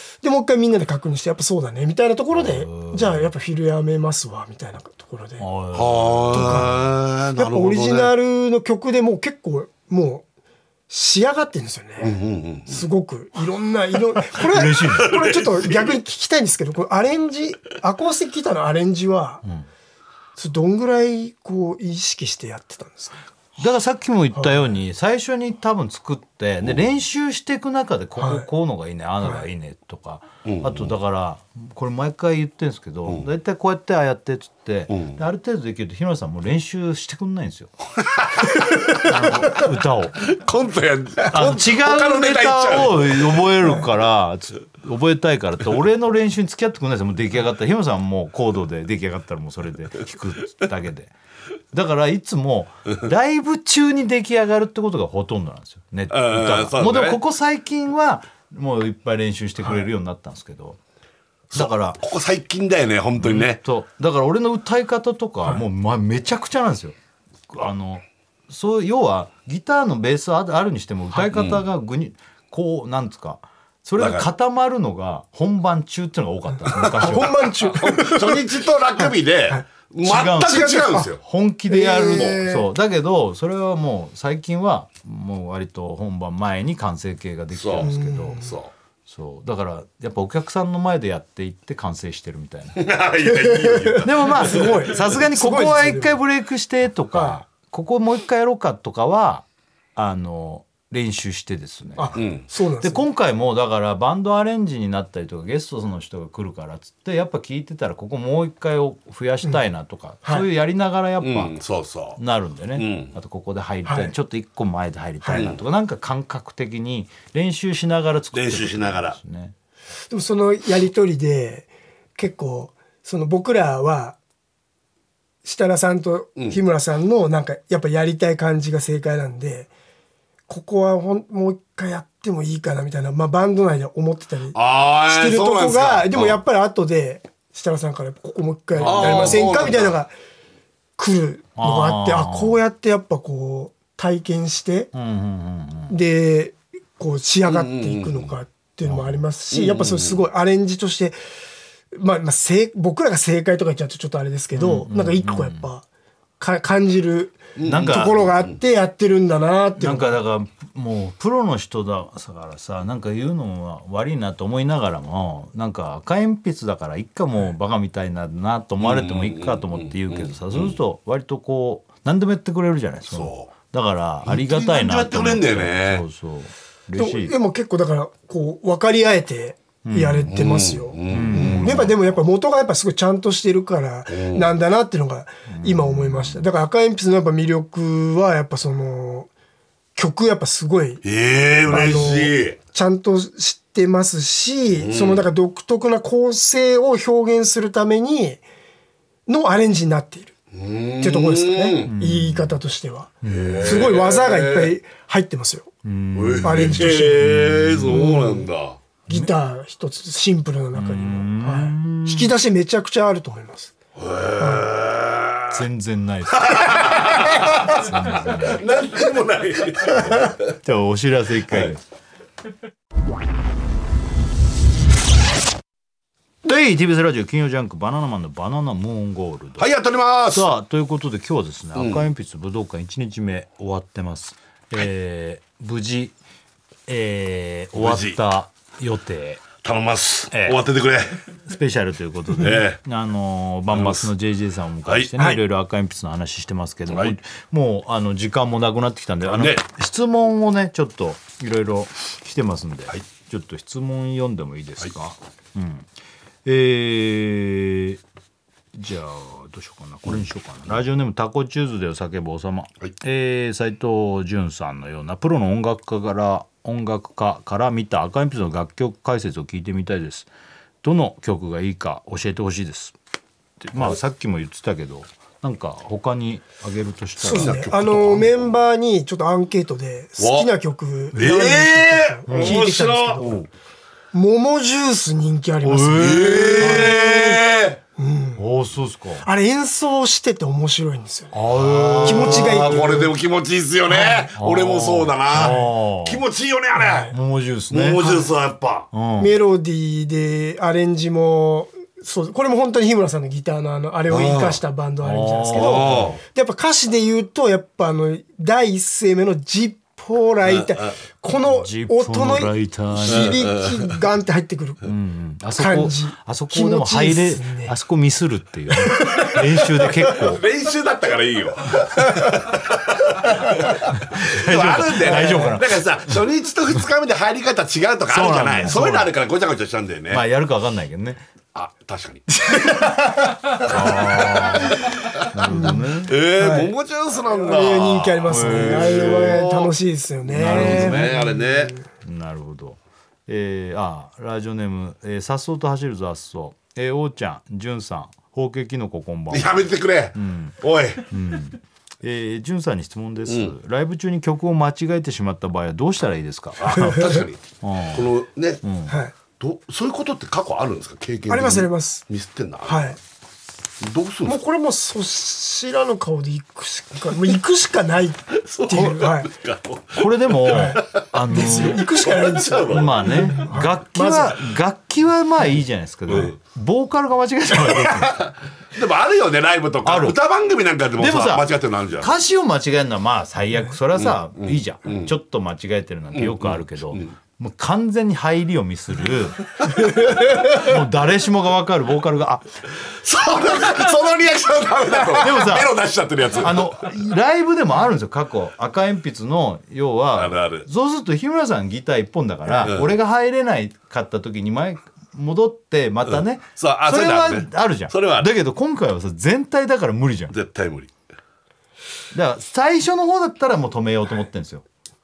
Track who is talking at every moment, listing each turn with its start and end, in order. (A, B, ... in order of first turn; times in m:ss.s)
0:00.2-0:05.5 A
0:02.4-0:03.3 B
0:05.4-0:06.8 B
0:05.7-0:08.1 C
0:06.3-0:06.8 A
0:07.4-0:10.3 A
0:10.9-0:12.2 A
0:12.0-0:12.9 C
0:12.7-0:19.4 A
0:14.3-0:15.2 B
0:15.0-0:16.0 C
0:20.4-0:23.2 A
0:23.6-0:37.7 B
0:28.2-0:28.5 A
0:30.4-0:30.9 C
0:34.9-0:35.2 C
0:38.0-0:39.6 C
0:39.0-0:40.3 B
0:40.3-0:43.5 C
0:41.3-0:51.1 B
0:51.7-1:00.8 B
0:56.1-0:57.2 C
1:01.5-1:03.6 C
1:01.5-1:02.0 B
1:03.2-1:07.0 B
1:07.5-1:17.5 B
1:11.2-1:11.6 C
1:14.0-1:14.3 C
1:16.7-1:21.2 C
1:16.8-1:19.6 A
1:20.0-1:28.4 B
1:20.4-1:21.1 A
1:21.7-1:22.7 A
1:22.0-1:22.4 C
1:27.5-1:28.7 C
1:27.8-1:28.6 A
1:29.1-1:32.9 B
1:32.8-1:35.1 C
1:33.4-1:36.2 A
1:34.0-1:42.2 B
1:37.1-1:37.4 A
1:42.0-1:43.1 A
1:42.2-1:42.4 C
1:42.8-1:51.6 B
1:51.2-1:52.2 C
1:52.2-1:59.5 B
1:52.8-1:53.2 C
1:53.9-1:54.1 A
1:55.2-1:55.5 A
1:55.3-1:55.6 C
1:58.3-1:59.2 C
2:00.1-2:04.2 A
2:05.4-2:09.7 A
2:10.5-2:20.1 A
2:14.5-2:16.4 C
2:18.7-2:19.6 B
2:18.8-2:20.0 C
2:21.0-2:24.9 A
2:21.6-2:22.6 B
2:24.9-2:26.0 B
2:25.9-2:31.2 A
2:27.4-2:28.4 C
2:28.8-2:29.2 B
2:29.5-2:30.2 C
2:31.9-2:35.8 A
2:34.5-2:35.7 B
2:36.4-2:40.1 A
2:37.6-2:38.6 C
2:37.6-2:38.2 B
2:39.8-2:57.3 B
2:48.8-2:50.8 C
2:53.1-2:53.5 C
2:54.2-2:56.0 C
2:57.0-3:09.3 A
2:59.8-3:00.4 B
3:00.3-3:02.0 C
3:01.1-3:01.9 B
3:04.1-3:04.5 C
3:05.5-3:06.5 B
3:10.0-3:11.0 A
3:11.0-3:12.6 C
3:11.6-3:18.4 A
3:14.8-3:15.3 C
3:19.3-3:20.3 A
3:20.5-3:21.9 C
3:21.0-3:25.7 A
3:21.8-3:22.6 B
3:23.2-3:23.9 B
3:23.2-3:24.8 C
3:25.8-3:28.1 B
3:26.1-3:28.8 C
3:26.4-3:27.3 A
3:27.9-3:28.5 A
3:29.1-3:33.7 A
3:30.7-3:32.3 B
3:34.0-3:35.6 C
3:34.4-3:34.7 A
3:35.5-3:38.6 B
3:36.3-3:40.5 C
3:40.6-3:41.8 B
3:41.5-3:41.8 C
3:46.4-3:49.7 B
3:49.6-3:50.5 C
3:50.3-3:56.2 B
3:51.8-3:52.1 C
3:56.9-3:59.5 B
3:57.8-3:58.2 C
3:59.6-4:01.2 C
4:00.3-4:00.6 B
4:01.5-4:15.9 B
4:02.3-4:02.8 C
4:03.7-4:04.1 C
4:04.8-4:05.1 C
4:06.9-4:07.2 C
4:09.3-4:09.6 C
4:16.4-4:18.0 B
4:18.7-4:30.3 B
4:30.8-4:33.0 B
4:33.6-4:38.3 B
4:37.2-4:38.4 C
4:37.2-4:43.3 A
4:40.2-4:40.5 C
4:41.1-4:43.4 C
4:42.3-4:42.6 B
4:43.2-4:43.5 B
4:44.1-4:47.4 A
4:45.6-4:47.0 B
4:46.0-4:47.8 C
4:48.0-4:48.4 A
4:48.4-4:49.3 B
4:49.2-4:51.3 A
4:51.3-4:53.1 B
4:51.6-4:57.1 C
4:52.0-4:53.1 A
4:53.9-4:56.2 B
4:55.4-4:55.7 A
4:56.8-4:57.1 A
4:57.1-4:58.3 B
4:57.7-4:58.9 C
4:58.9-4:59.3 B
4:59.2-5:14.9 A
5:04.1-5:04.6 C
5:05.0-5:06.2 B
5:05.5-5:06.2 C
5:10.4-5:10.9 C
5:11.4-5:13.4 B
5:13.1-5:13.9 C
5:14.8-5:20.4 B
5:15.6-5:17.7 A
5:18.8-5:19.4 A
5:20.0-5:30.2 C
5:23.9-5:25.7 B
5:28.1-5:29.1 B
5:30.1-5:31.2 B
5:31.6-5:32.4 C
5:33.5-5:36.2 B
5:33.6-5:39.8 C
5:35.5-5:35.8 A
5:36.4-5:36.7 A
5:37.3-5:41.8 A
5:38.3-5:39.4 B
5:40.3-5:41.2 B
5:40.4-5:41.8 C
5:42.0-5:58.1 B
5:49.3-5:51.0 C
5:53.3-5:53.5 C
5:56.6-5:57.4 C
5:56.8-5:57.2 A
5:57.9-5:58.6 C
5:58.6-5:59.0 B
5:58.9-5:59.1 A
5:59.4-6:03.0 C
6:01.3-6:02.0 A
6:02.7-6:03.0 A
6:03.8-6:04.4 C
6:04.3-6:09.3 A
6:08.4-6:13.5 C
6:10.0-6:11.9 B
6:10.5-6:10.8 A
6:11.3-6:14.5 A
6:12.6-6:18.2 B
6:16.1-6:16.4 C
6:18.7-6:22.1 C
6:19.8-6:20.2 B
6:21.0-6:29.4 B
6:24.0-6:25.1 C
6:26.1-6:27.1 C
6:30.4-6:32.5 B
6:32.8-6:36.9 C
6:35.2-6:35.8 B
6:36.4-6:50.4 B
6:40.2-6:40.7 C
6:42.5-6:42.9 C
6:46.1-6:48.3 C
6:50.3-6:50.9 C
6:52.1-6:54.6 B